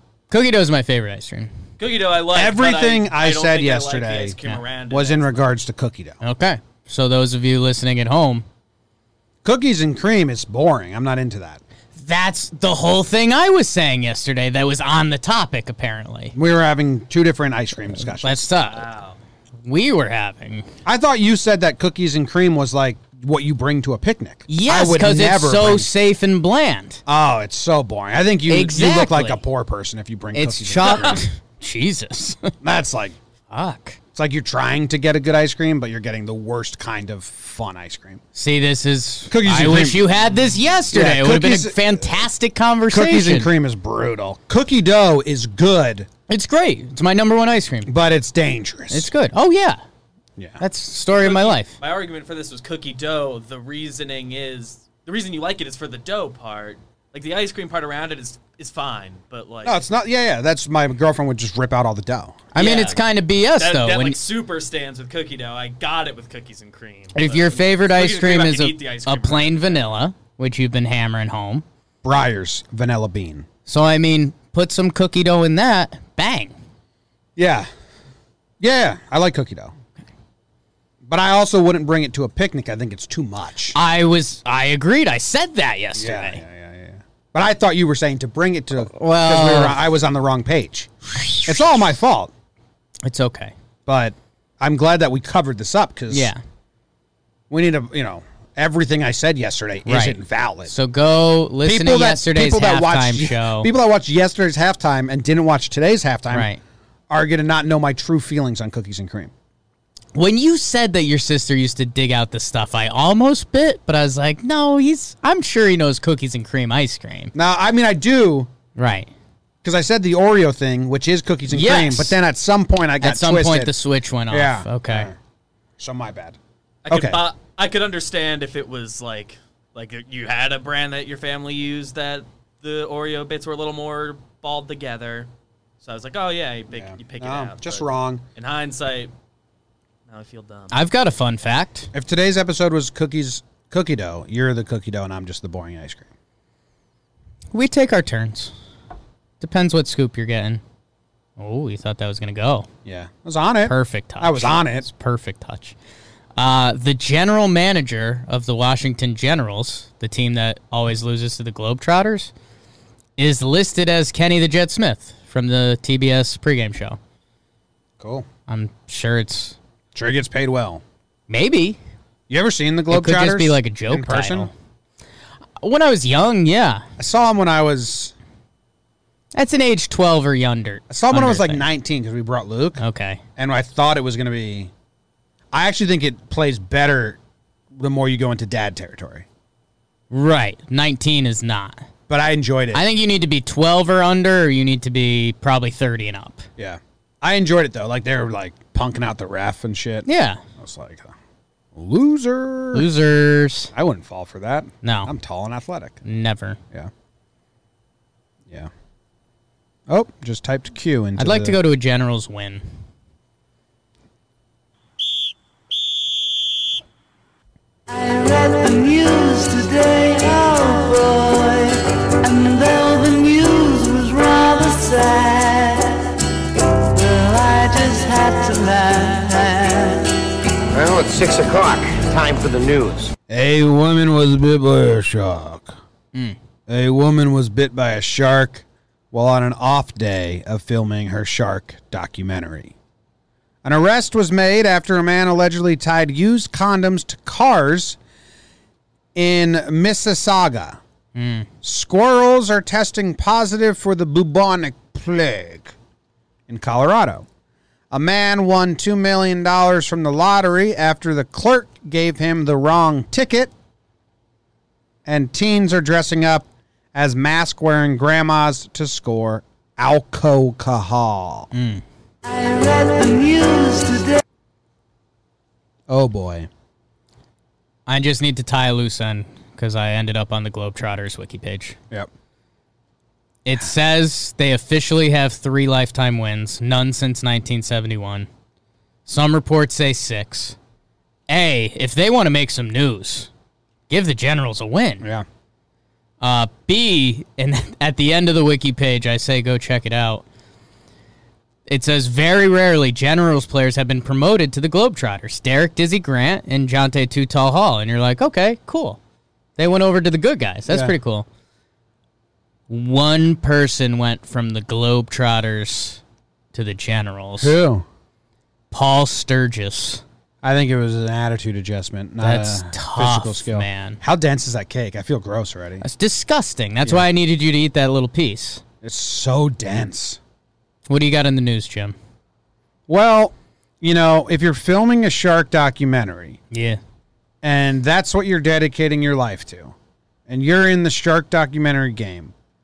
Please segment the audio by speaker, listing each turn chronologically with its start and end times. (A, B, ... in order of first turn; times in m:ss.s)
0:00.3-0:01.5 A
0:01.8-0:05.5 B
0:02.3-0:04.4 C
0:04.9-0:06.2 C
0:06.2-0:08.4 A
0:09.4-0:11.6 C
0:12.0-0:16.3 A
0:16.3-0:18.4 C
0:18.1-0:18.9 A
0:18.6-0:19.2 B
0:19.7-0:20.7 A
0:20.8-0:25.9 C
0:24.5-0:27.0 A
0:27.0-0:31.2 C
0:28.5-0:29.4 A
0:30.3-0:32.5 A
0:30.8-0:31.2 B
0:32.6-0:33.2 C
0:33.5-0:34.0 A
0:34.1-0:38.2 C
0:38.3-0:43.5 A
0:39.3-0:40.0 C
0:40.9-0:42.2 C
0:42.9-0:46.1 C
0:46.3-0:47.9 A
0:47.8-0:49.1 C
0:48.9-0:49.8 A
0:50.6-0:51.7 A
0:51.1-0:59.8 B
0:59.6-1:02.5 C
1:02.5-1:04.2 A
1:02.6-1:03.0 B
1:03.5-1:09.9 B
1:07.1-1:11.6 A
1:12.0-1:13.5 C
1:13.7-1:16.5 A
1:17.4-1:17.7 C
1:18.6-1:19.7 C
1:21.0-1:23.8 C
1:23.7-1:26.4 A
1:26.0-1:30.9 C
1:28.9-1:29.8 A
1:31.4-1:32.3 C
1:33.0-1:33.5 A
1:33.8-1:36.3 C
1:36.1-1:36.4 A
1:37.5-1:40.7 C
1:39.8-1:43.7 A
1:41.6-1:46.5 C
1:46.3-1:46.6 A
1:47.1-1:49.3 C
1:50.1-1:57.3 A
1:57.3-1:58.5 C
1:58.8-1:59.1 A
1:59.6-2:03.7 C
2:01.5-2:02.1 A
2:03.0-2:05.1 A
2:04.3-2:05.2 C
2:05.8-2:06.4 C
2:06.8-2:15.3 B
2:06.9-2:07.2 C
2:15.8-2:19.1 B
2:16.7-2:18.2 C
2:20.1-2:20.8 B
2:20.7-2:21.9 A
2:21.9-2:26.1 C
2:27.5-2:28.5 A
2:29.4-2:30.6 A
2:31.4-2:32.7 A
2:32.8-2:34.9 C
2:33.6-2:35.7 A
2:36.4-2:42.3 A
2:43.2-2:47.0 A
2:48.0-2:48.3 C
2:48.5-2:49.6 A
2:49.9-2:50.8 C
2:51.3-2:51.8 A
2:52.3-2:54.5 C
2:52.9-2:54.5 A
2:55.6-2:56.8 A
2:57.0-2:58.1 C
2:59.4-3:01.6 A
3:00.9-3:02.8 C
3:02.8-3:03.2 A
3:03.4-3:04.7 C
3:05.5-3:07.2 C
3:07.7-3:09.2 C
3:10.1-3:11.8 A
3:12.1-3:12.8 C
3:12.7-3:16.4 A
3:16.6-3:20.1 C
3:20.0-3:20.4 A
3:20.6-3:21.1 C
3:21.7-3:22.9 C
3:22.7-3:23.7 A
3:23.7-3:26.0 C
3:24.8-3:25.1 A
3:26.0-3:26.6 A
3:29.9-3:31.6 C
3:31.2-3:32.6 A
3:37.9-3:46.2 D
3:46.8-3:50.2 D
3:50.8-3:53.1 E
3:53.3-3:55.8 C
3:56.7-4:02.7 C
4:03.6-4:08.0 C
4:09.1-4:10.8 C
4:11.1-4:11.5 A
4:11.6-4:15.7 C
4:16.5-4:17.2 C
4:17.9-4:23.5 C
4:25.0-4:31.5 C
4:31.5-4:31.8 A
4:32.2-4:34.2 D
4:35.9-4:36.5 C
4:37.9-4:41.8 A
4:43.4-4:48.3 A
4:49.0-4:50.6 A
4:51.3-4:53.3 A
4:53.9-4:55.1 A
4:56.2-5:00.2 A
5:01.7-5:09.0 A
5:09.6-5:11.2 A
5:10.7-5:10.9 C
5:12.7-5:16.0 A
5:16.5-5:17.6 A
5:17.4-5:17.8 C
5:18.7-5:20.0 A
5:20.4-5:25.8 C
5:22.2-5:24.0 A
5:25.8-5:28.6 A
5:28.8-5:30.2 C
5:30.9-5:31.9 A
5:32.9-5:36.4 C
5:36.5-5:36.8 A
5:37.4-5:39.7 C
5:40.3-5:42.3 C